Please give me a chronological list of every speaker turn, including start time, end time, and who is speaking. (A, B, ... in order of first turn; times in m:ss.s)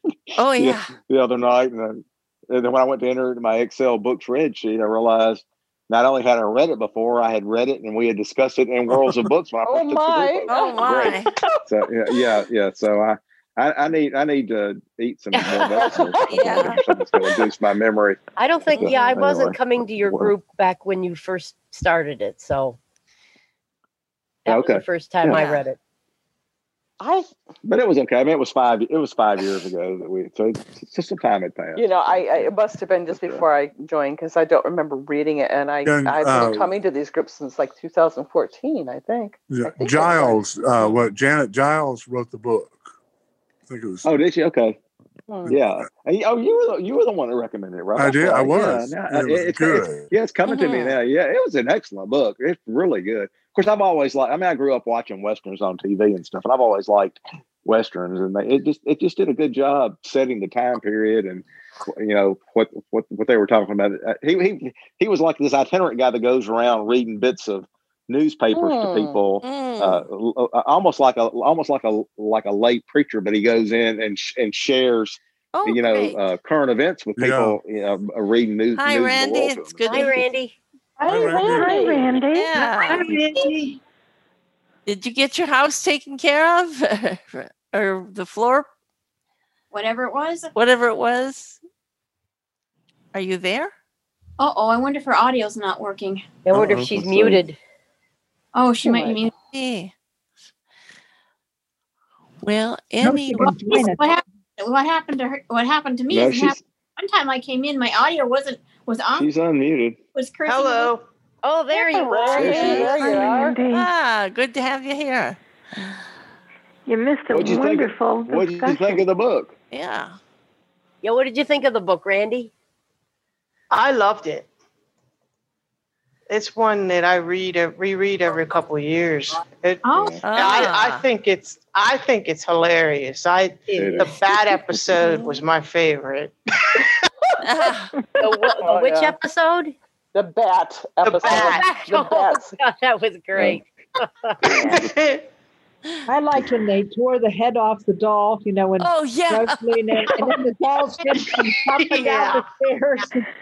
0:00.4-0:00.9 A
0:00.6-0:20.3 B
0:08.9-0:09.2 C
0:09.6-0:12.4 D
0:10.5-0:11.3 A
0:15.3-0:15.7 E
0:15.7-0:17.4 D
0:16.3-0:16.8 A
0:18.4-0:22.8 E
0:24.4-0:25.8 E
0:24.5-0:25.5 B
0:25.3-0:25.6 A
0:27.0-0:27.3 D
0:27.6-0:32.5 B
0:31.8-0:40.4 D
0:33.1-0:33.4 B
0:35.8-0:36.7 C
0:39.5-0:42.8 C
0:43.7-0:44.0 C
0:44.0-0:44.8 B
0:45.3-0:45.5 D
0:45.4-1:20.1 B
0:48.0-0:50.1 C
0:50.5-0:51.0 A
1:08.5-1:09.2 D
1:09.4-1:10.0 A
1:15.5-1:16.2 A
1:17.2-1:17.6 C
1:18.7-1:20.2 A
1:19.8-1:20.6 E
1:21.0-1:22.2 D
1:21.0-1:21.9 C
1:21.4-1:23.3 F
1:22.3-1:23.1 A
1:22.8-1:23.8 G
1:24.8-1:28.7 A
1:29.7-1:30.5 H
1:30.5-1:31.6 A
1:33.1-1:33.7 A
1:34.4-1:36.3 H
1:36.4-1:37.6 E
1:36.5-1:37.4 B
1:36.6-1:36.9 C
1:38.5-1:39.3 H
1:38.8-1:39.2 D
1:39.5-1:39.9 A
1:42.4-1:43.6 A
1:43.0-1:44.1 G
1:43.4-1:49.3 H
1:46.1-1:46.6 B
1:49.1-1:50.0 B
1:50.1-1:50.9 H
1:50.4-1:51.0 I
1:51.4-1:53.2 E
1:51.7-1:53.6 D
1:52.3-1:53.1 B
1:52.8-1:53.9 F
1:53.7-1:55.4 A
1:56.9-1:59.0 F
1:57.3-1:59.5 B
1:59.7-2:00.2 A
2:01.0-2:02.5 E
2:03.7-2:04.5 I
2:06.3-2:17.0 I
2:09.8-2:10.7 H
2:09.9-2:10.2 B
2:10.2-2:11.0 A
2:13.7-2:14.2 B
2:14.7-2:15.0 B
2:17.4-2:17.9 A
2:18.2-2:19.2 D
2:18.2-2:19.7 E
2:20.1-2:22.6 D
2:21.0-2:21.6 I
2:21.2-2:24.7 E
2:23.3-2:23.6 B
2:24.5-2:24.8 F
2:24.6-2:25.3 I
2:26.1-2:33.3 G
2:28.8-2:29.6 A
2:31.8-2:32.4 I